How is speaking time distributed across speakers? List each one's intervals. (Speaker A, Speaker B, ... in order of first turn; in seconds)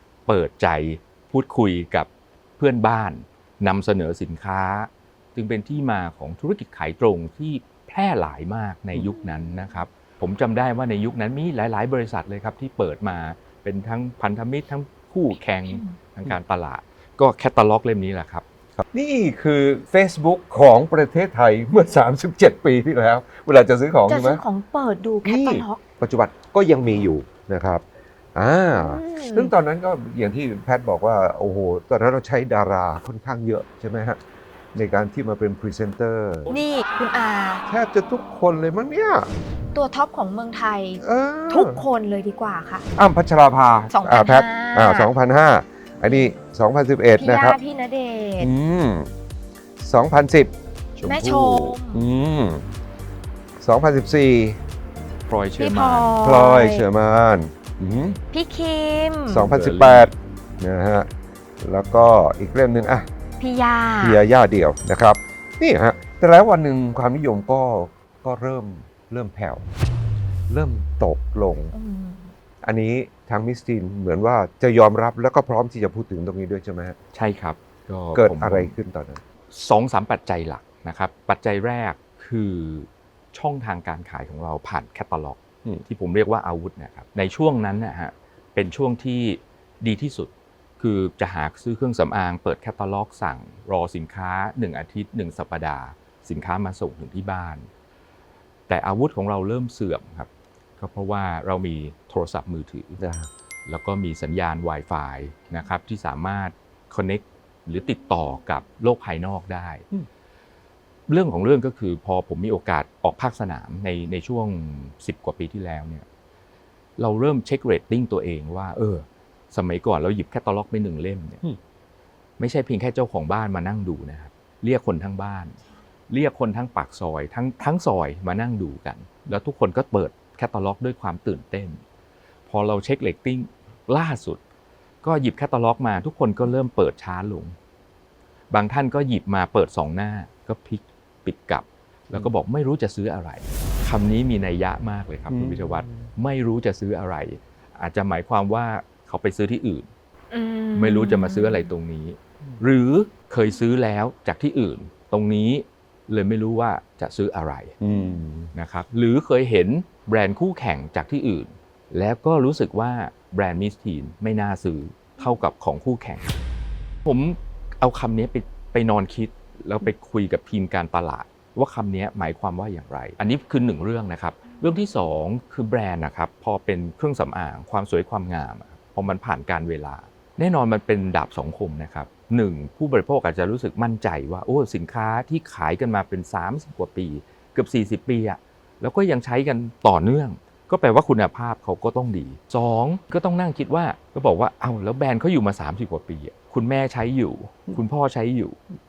Speaker A: 0.3-18.4, 51.0-51.8, 55.3-56.1, 59.4-60.1, 77.1-78.8, 79.5-97.7, 98.7-103.0, 103.7-109.8, 111.1-116.0, 117.0-121.4, 122.4-125.6, 126.1-131.8, 132.5-134.4, 135.0-137.6, 138.5-149.9, 150.8-157.7, 158.5-166.3, 167.0-198.6
Speaker B: 15.7-16.0, 24.1-25.8, 28.8-29.5, 36.5-37.6, 39.7-42.9, 43.9-45.1, 47.1-48.5, 51.0-52.0, 55.6-56.8, 58.3-59.5, 63.4-64.2, 71.7-72.3, 150.3-151.7
Speaker C: 18.8-24.4, 25.2-27.8, 28.3-34.2, 34.7-36.5, 37.7-39.3, 41.0-41.8, 43.0-47.6, 48.4-49.1, 49.8-50.5, 51.9-52.6, 53.6-54.6, 56.2-58.2, 59.3-61.1, 61.6-63.1, 64.0-69.7, 70.5-71.7, 72.6-77.0, 78.1-79.2, 103.0-103.3, 145.3-146.1, 157.8-158.5